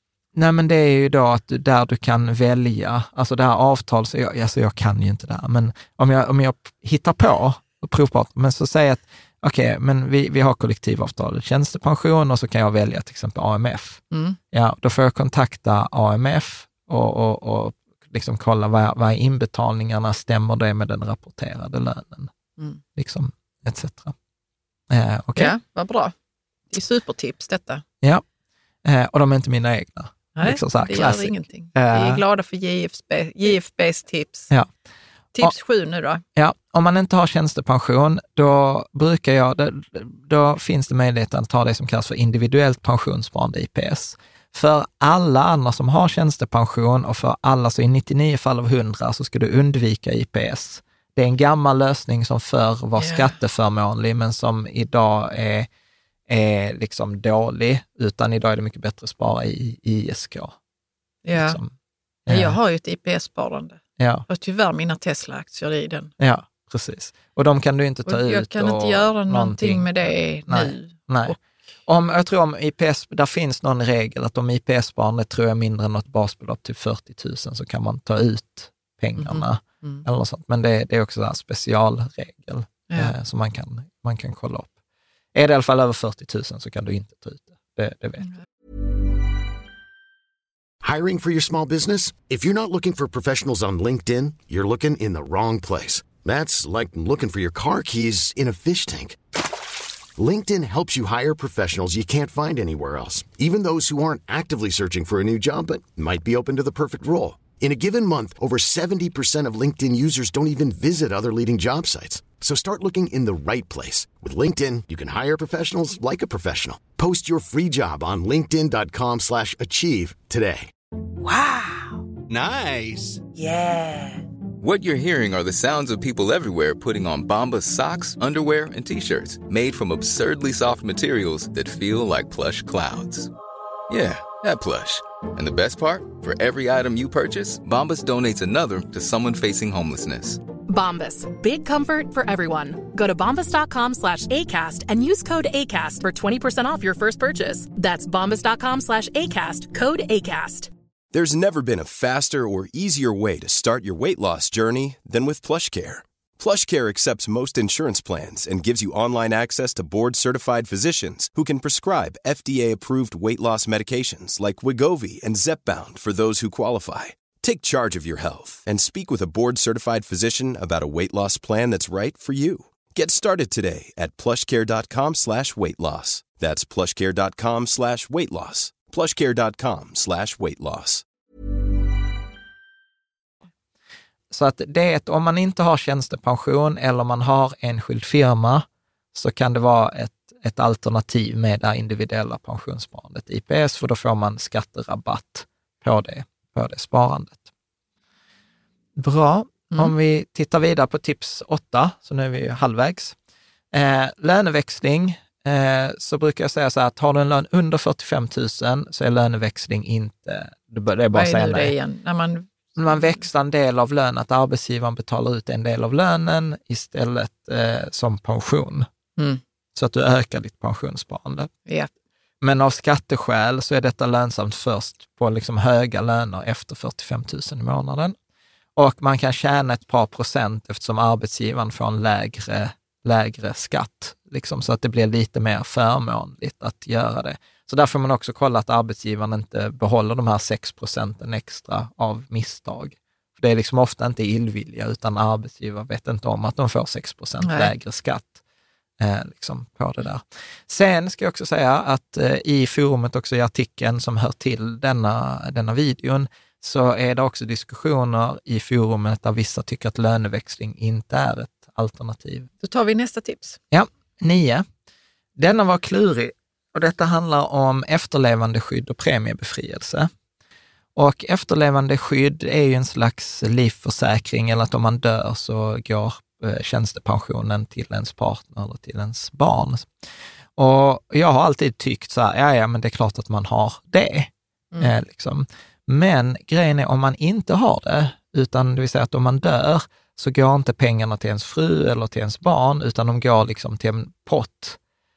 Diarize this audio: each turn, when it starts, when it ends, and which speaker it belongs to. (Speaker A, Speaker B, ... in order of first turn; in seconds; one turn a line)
Speaker A: 0.3-22.3
Speaker B: 14.1-14.4
Speaker A: 23.0-24.1
Speaker A: 24.9-25.6
Speaker B: 25.4-26.1
Speaker B: 26.7-27.8
Speaker A: 28.8-32.2
Speaker B: 30.4-34.5
Speaker B: 35.3-36.2
Speaker A: 36.4-55.7
Speaker B: 53.0-53.3
Speaker A: 56.3-60.6
Speaker B: 61.2-61.6
Speaker A: 61.4-61.7
Speaker B: 62.3-66.1
Speaker A: 62.3-62.6
Speaker A: 64.0-64.2
Speaker A: 66.2-71.3
Speaker B: 68.1-71.4
Speaker A: 71.9-84.7
Speaker B: 79.2-80.0
Speaker B: 82.9-83.1
Speaker A: 85.3-88.3
Speaker C: 90.8-99.2
Speaker C: 100.2-120.7
Speaker D: 122.3-123.2
Speaker D: 124.6-133.3
Speaker D: 133.9-140.4
Speaker E: 140.7-150.7
Speaker F: 151.1-181.0
Speaker A: 184.3-197.4
Speaker A: 199.0-203.2
Speaker A: 203.7-211.8
Speaker B: 211.1-213.0
Speaker A: 212.8-218.9
Speaker A: 219.8-221.5
Speaker A: 222.4-228.2
Speaker A: 228.8-248.4
Speaker B: 247.4-247.7
Speaker A: 249.0-262.5
Speaker B: 262.6-263.6
Speaker A: 263.7-264.6
Speaker A: 265.4-270.1
Speaker A: 271.0-279.9
Speaker A: 280.6-294.8